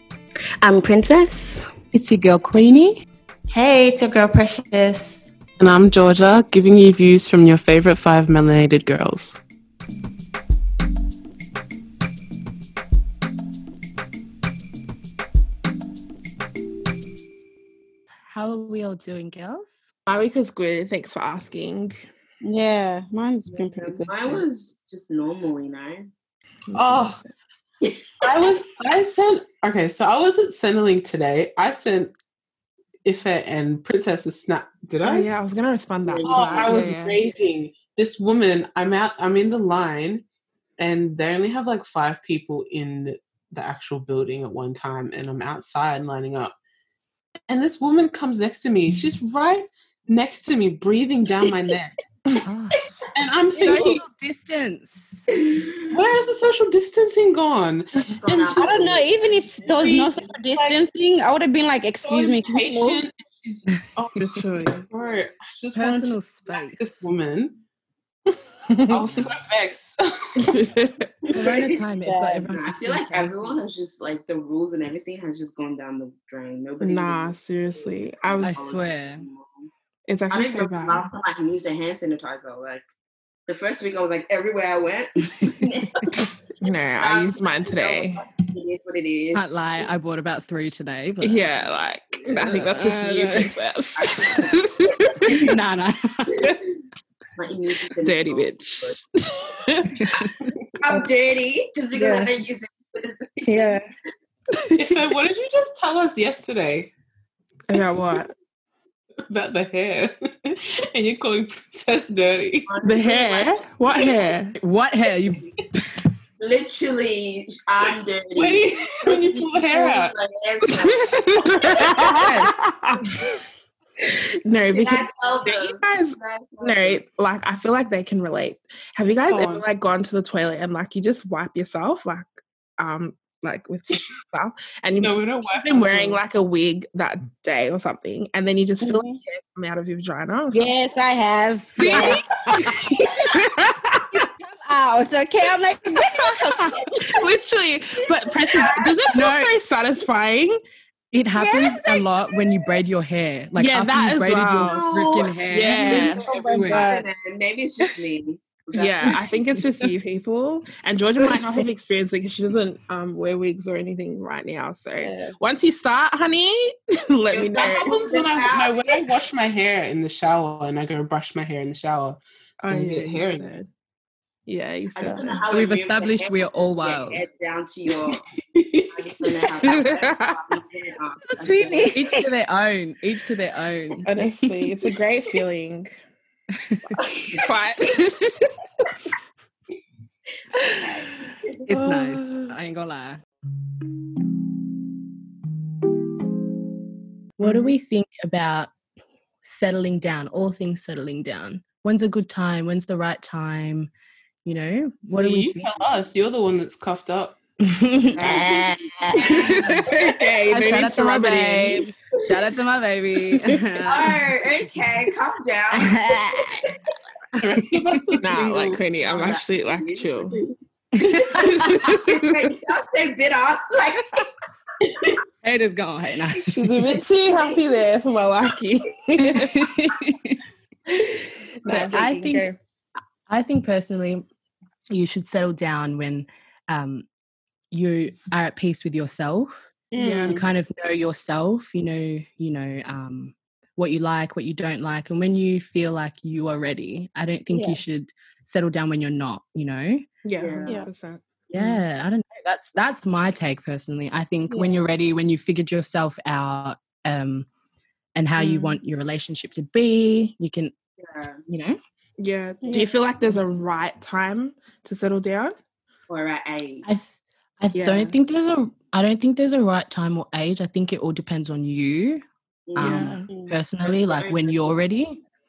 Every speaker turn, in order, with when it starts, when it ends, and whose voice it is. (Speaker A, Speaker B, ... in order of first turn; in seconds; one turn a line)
Speaker A: 0.6-1.6
Speaker B: 1.9-3.0
Speaker C: 3.5-5.2
Speaker D: 5.6-9.4
Speaker B: 18.3-19.9
Speaker E: 20.1-22.0
Speaker C: 22.4-24.4
Speaker A: 23.5-26.1
Speaker E: 26.7-27.3
Speaker D: 26.7-27.2
Speaker A: 27.8-28.3
Speaker D: 28.2-32.1
Speaker D: 33.0-35.3
Speaker E: 35.0-37.2
Speaker A: 36.0-36.9
Speaker D: 36.3-40.2
Speaker D: 40.8-46.5
Speaker D: 47.5-51.9
Speaker B: 52.4-52.8
Speaker D: 53.1-54.0
Speaker B: 53.5-55.2
Speaker A: 55.4-55.7
Speaker D: 55.9-58.8
Speaker A: 58.1-60.0
Speaker C: 58.5-63.0
Speaker D: 59.6-60.8
Speaker D: 62.0-67.6
Speaker E: 64.2-64.9
Speaker B: 65.7-66.8
Speaker E: 68.7-69.3
Speaker D: 68.8-70.6
Speaker E: 70.4-71.1
Speaker A: 71.2-79.7
Speaker B: 71.3-73.3
Speaker C: 72.0-72.4
Speaker E: 76.8-78.6
Speaker B: 78.4-79.3
Speaker E: 80.1-81.1
Speaker A: 80.3-82.8
Speaker A: 83.5-86.3
Speaker E: 86.6-88.2
Speaker A: 87.0-89.8
Speaker B: 89.3-91.7
Speaker E: 91.2-95.5
Speaker B: 92.3-93.5
Speaker A: 94.0-95.4
Speaker B: 95.2-96.6
Speaker A: 97.4-99.0
Speaker E: 98.0-100.3
Speaker B: 100.0-100.3
Speaker A: 100.8-103.8
Speaker C: 102.0-102.3
Speaker C: 103.5-103.8
Speaker E: 104.5-105.0
Speaker D: 104.7-106.9
Speaker E: 107.7-108.3
Speaker D: 109.3-112.7
Speaker A: 112.7-114.3
Speaker E: 112.8-114.5
Speaker B: 114.6-115.9
Speaker A: 116.4-122.3
Speaker D: 118.3-120.1
Speaker E: 120.8-123.4
Speaker B: 122.2-122.5
Speaker E: 124.0-140.7
Speaker A: 124.7-127.0
Speaker D: 129.3-129.6
Speaker D: 135.0-136.2
Speaker C: 138.8-139.2
Speaker C: 140.5-143.1
Speaker E: 141.8-144.3
Speaker A: 141.8-143.3
Speaker C: 144.1-146.8
Speaker E: 146.0-150.6
Speaker A: 146.9-147.3
Speaker A: 148.0-149.1
Speaker B: 149.1-149.5
Speaker B: 151.1-157.0
Speaker C: 151.3-152.0
Speaker E: 153.6-154.8
Speaker A: 154.6-159.5
Speaker E: 155.5-156.2
Speaker C: 155.8-157.0
Speaker E: 158.8-167.9
Speaker C: 165.0-165.3
Speaker A: 167.3-169.1
Speaker D: 167.5-173.6
Speaker E: 172.6-173.7
Speaker E: 174.5-175.5
Speaker A: 174.9-178.3
Speaker B: 175.5-177.2
Speaker A: 178.9-182.0
Speaker E: 179.5-180.6
Speaker C: 181.5-181.9
Speaker B: 181.9-184.7
Speaker E: 184.0-185.9
Speaker B: 186.6-187.0
Speaker E: 187.3-188.3
Speaker A: 190.8-191.5
Speaker B: 191.7-193.2
Speaker E: 191.7-192.5
Speaker B: 197.4-198.7
Speaker E: 197.4-197.7
Speaker B: 199.4-203.9
Speaker B: 204.4-205.7
Speaker D: 205.2-207.4
Speaker B: 207.6-209.8
Speaker A: 208.2-210.3
Speaker E: 209.2-211.9
Speaker B: 210.5-214.2
Speaker E: 213.3-213.6
Speaker A: 213.8-216.7
Speaker B: 215.7-216.8
Speaker B: 217.3-218.1
Speaker D: 217.4-218.4
Speaker E: 218.2-220.4
Speaker A: 218.3-224.3
Speaker B: 221.0-222.0
Speaker E: 221.1-222.3
Speaker A: 224.8-225.2
Speaker B: 225.4-226.9
Speaker E: 226.4-229.8
Speaker A: 226.8-227.6
Speaker B: 229.2-230.4
Speaker E: 231.6-232.6
Speaker B: 231.7-232.5
Speaker B: 233.3-234.2
Speaker B: 234.9-237.1
Speaker B: 237.7-239.6
Speaker C: 239.9-240.4
Speaker E: 240.0-240.4
Speaker B: 240.3-250.1
Speaker C: 247.5-247.8
Speaker E: 250.2-251.8
Speaker A: 250.4-250.8
Speaker B: 251.5-257.5
Speaker C: 254.5-254.8
Speaker B: 258.1-260.7
Speaker E: 258.4-258.8
Speaker A: 261.0-261.4
Speaker B: 261.5-261.8
Speaker E: 262.2-265.6
Speaker C: 262.6-262.9
Speaker A: 266.1-266.8
Speaker B: 266.8-272.2
Speaker E: 267.7-268.1
Speaker A: 272.7-273.2
Speaker B: 272.8-275.2
Speaker E: 272.8-273.3
Speaker C: 273.3-273.5
Speaker A: 273.8-274.8